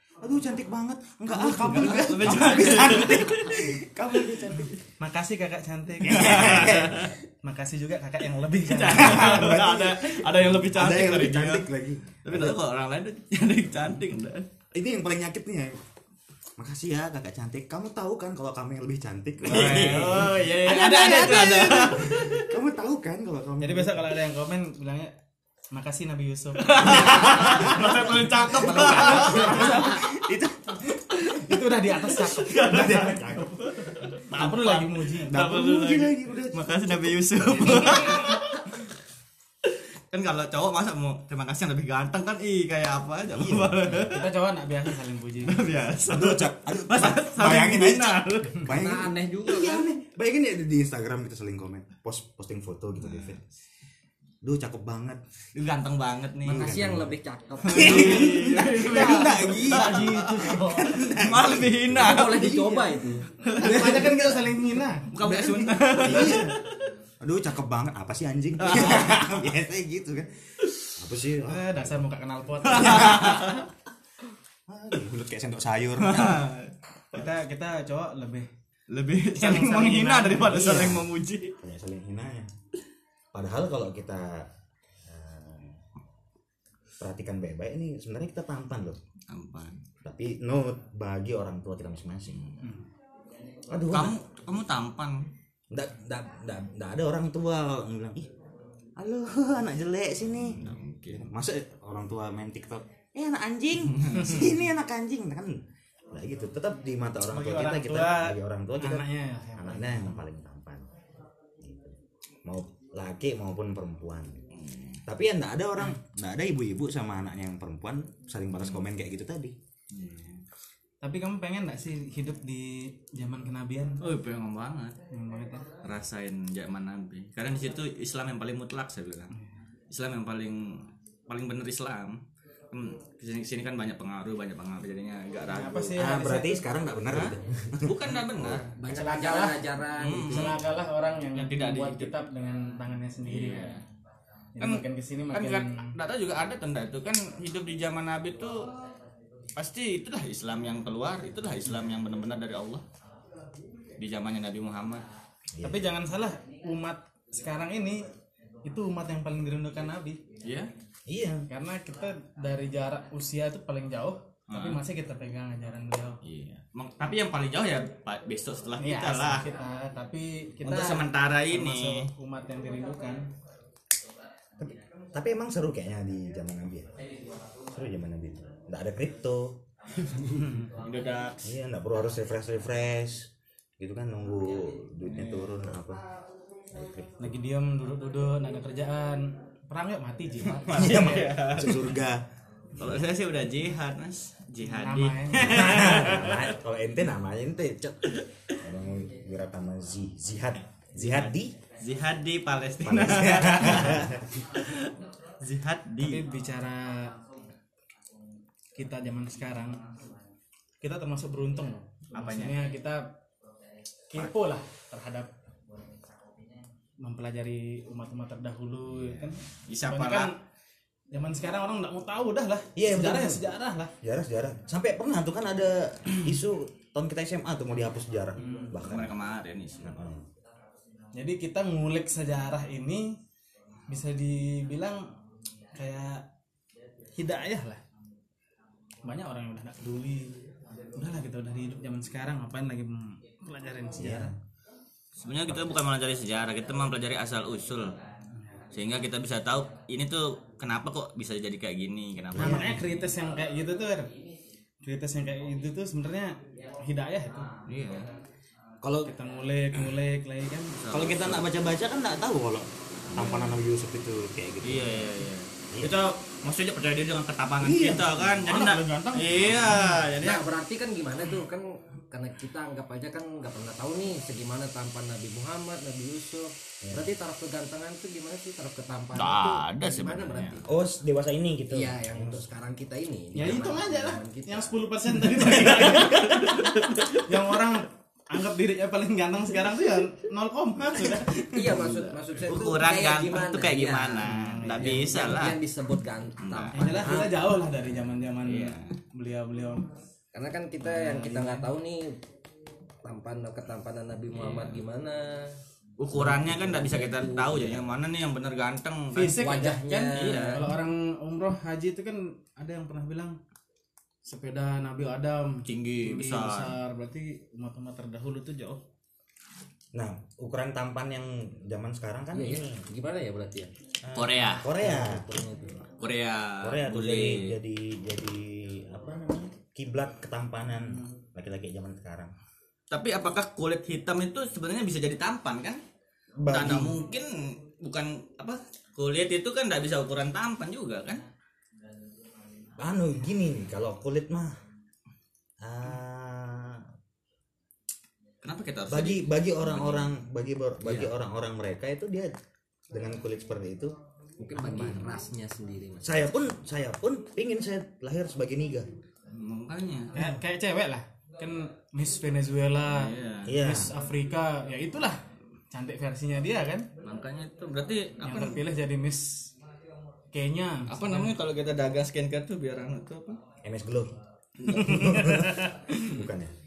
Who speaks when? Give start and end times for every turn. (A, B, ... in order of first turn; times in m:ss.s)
0:00.2-0:04.7 A
0:01.3-0:04.8 B
0:05.0-0:09.6 C
0:06.0-0:07.1 A
0:06.0-0:07.1 B
0:08.6-0:11.7 B
0:08.9-0:12.6 A
0:12.2-0:14.5 B
0:14.7-0:15.8 A
0:16.6-0:24.1 A
0:19.4-0:22.6 B
0:23.6-0:25.1 C
0:25.7-0:30.1 C
0:26.6-0:30.0 B
0:26.8-0:30.9 A
0:31.3-0:33.2 C
0:32.2-0:38.9 B
0:32.6-0:33.6 A
0:34.3-0:35.4 C
0:35.3-0:38.3 A
0:39.6-0:44.3 B
0:43.3-0:44.1 A
0:44.1-0:45.8 C
0:44.9-0:48.7 B
0:46.1-0:53.4 A
0:48.7-0:49.9 D
0:53.0-0:53.4 B
0:54.4-0:55.2 A
0:55.6-0:56.8 B
0:56.5-0:57.2 A
0:56.5-0:58.4 D
0:57.6-1:02.6 B
0:57.7-1:02.8 A
0:58.6-1:01.0 C
1:02.0-1:03.3 D
1:03.4-1:04.3 B
1:03.5-1:06.6 C
1:03.6-1:04.1 A
1:05.1-1:06.8 B
1:06.0-1:06.6 A
1:07.2-1:10.3 A
1:08.6-1:09.4 B
1:10.6-1:10.9 B
1:11.0-1:12.0 A
1:11.4-1:13.6 C
1:12.6-1:13.7 B
1:12.8-1:13.3 A
1:14.7-1:16.5 A
1:16.0-1:17.2 B
1:17.1-1:18.5 C
1:18.9-1:21.6 B
1:19.4-1:20.9 C
1:20.5-1:22.5 A
1:23.3-1:24.5 A
1:25.0-1:25.8 A
1:27.0-1:29.0 A
1:29.3-1:29.8 B
1:30.0-1:32.4 A
1:32.3-1:32.7 B
1:33.7-1:34.2 A
1:33.9-1:35.3 B
1:35.7-1:38.3 A
1:39.0-1:50.9 A
1:40.4-1:41.3 B
1:43.9-1:44.4 B
1:44.1-1:44.5 C
1:47.3-1:50.2 C
1:51.6-1:54.4 A
1:54.5-1:55.0 B
1:55.1-1:59.6 A
1:58.5-1:58.8 B
1:59.9-2:00.4 B
2:01.0-2:04.0 C
2:04.0-2:05.0 B
2:05.1-2:05.7 C
2:05.8-2:09.4 B
2:09.9-2:12.2 B
2:12.7-2:16.1 B
2:15.5-2:16.6 C
2:16.0-2:18.6 A
2:17.1-2:18.7 B
2:18.8-2:20.5 D
2:18.8-2:19.6 C
2:20.0-2:20.6 B
2:20.2-2:23.8 C
2:21.3-2:22.1 B
2:23.2-2:23.8 B
2:24.6-2:25.9 C
2:24.6-2:28.7 B
2:29.6-2:32.8 B
2:34.0-2:35.0 B
2:35.5-2:35.9 A
2:35.6-2:38.0 C
2:38.6-2:40.2 C
2:40.4-2:40.7 B
2:41.1-2:41.5 A
2:41.5-2:46.2 C
2:44.5-2:44.8 B
2:46.2-2:49.5 B
2:48.8-2:53.3 C
2:50.6-2:52.1 B
2:54.6-2:56.9 A
2:57.7-2:59.6 A
3:00.6-3:01.6 B
3:01.4-3:06.0 A
3:05.0-3:05.7 B
3:06.7-3:07.4 A
3:07.2-3:11.5 C
3:10.4-3:12.0 B
3:10.7-3:12.2 A
3:12.8-3:13.1 A
3:12.8-3:16.5 B
3:14.6-3:15.8 C
3:15.4-3:21.6 A
3:18.1-3:18.6 B
3:21.0-3:26.2 B
3:22.8-3:24.4 A
3:26.0-3:27.2 C
3:28.8-3:29.8 C
3:30.8-3:33.2 C
3:32.1-3:32.6 B
3:34.1-3:35.3 C
3:37.0-3:40.4 C
3:39.7-3:40.3 B
3:41.1-3:43.9 C
3:42.8-3:43.5 A
3:44.0-3:49.2 A
3:48.4-3:48.8 C
3:48.8-3:50.0 B
3:49.8-3:50.3 A
3:51.1-3:53.2 C
3:53.9-3:55.1 C
3:55.8-3:56.3 C
3:57.2-3:57.8 C
3:59.0-4:00.3 C
4:01.0-4:04.3 C
4:04.0-4:04.4 A
4:05.2-4:07.9 B
4:05.5-4:05.8 A
4:08.7-4:12.9 B
4:12.3-4:12.8 A
4:12.4-4:14.1 C
4:14.8-4:17.5 C
4:17.7-4:18.1 B
4:18.8-4:19.1 A
4:19.1-4:20.8 C
4:20.8-4:21.5 B
4:20.9-4:25.2 A
4:23.1-4:23.5 B
4:24.6-4:30.4 B
4:25.7-4:26.0 A
4:27.6-4:28.3 A
4:28.4-4:30.0 C
4:30.2-4:40.8 D
4:36.8-4:37.1 A
4:39.1-4:40.6 B
4:40.7-4:42.5 A
4:41.7-4:44.8 D
4:43.3-4:51.8 C
4:45.3-4:47.4 B
4:51.5-4:57.3 D
4:51.6-4:55.6 B
4:54.2-4:55.5 C
4:56.4-4:57.1 B
4:56.8-4:59.9 C
4:57.0-4:57.4 A
4:58.4-4:59.0 B
5:00.3-5:02.2 D
5:00.8-5:01.7 C
5:03.0-5:05.5 D
5:04.3-5:04.8 B
5:06.0-5:09.6 B
5:06.1-5:07.9 D
5:09.1-5:13.4 C
5:09.4-5:10.6 D
5:10.1-5:10.7 B
5:14.2-5:18.8 C
5:15.7-5:16.8 B
5:19.9-5:22.8 A
5:22.3-5:23.7 D
5:24.0-5:25.4 A
5:24.1-5:24.7 B
5:24.7-5:25.9 D
5:26.0-5:27.6 B
5:26.6-5:32.3 A
5:32.9-5:35.8 B
5:36.4-5:37.0 A
5:36.5-5:41.2 B
5:42.8-5:44.5 A
5:45.6-5:46.8 A
5:48.4-5:50.1 B
5:48.9-5:52.3 A
5:50.8-5:51.1 B
5:52.9-5:54.0 A
5:54.4-5:56.3 D
5:54.6-5:55.1 A
5:56.0-5:58.9 A
5:59.3-6:00.3 B
6:00.2-6:06.9 C
6:02.9-6:03.6 B
6:03.4-6:03.9 A
6:07.0-6:08.6 B
6:08.2-6:09.5 C
6:10.3-6:11.3 C
6:10.9-6:13.4 B
6:13.6-6:16.5 A
6:14.6-6:15.1 B
6:14.7-6:15.7 C
6:15.9-6:16.2 B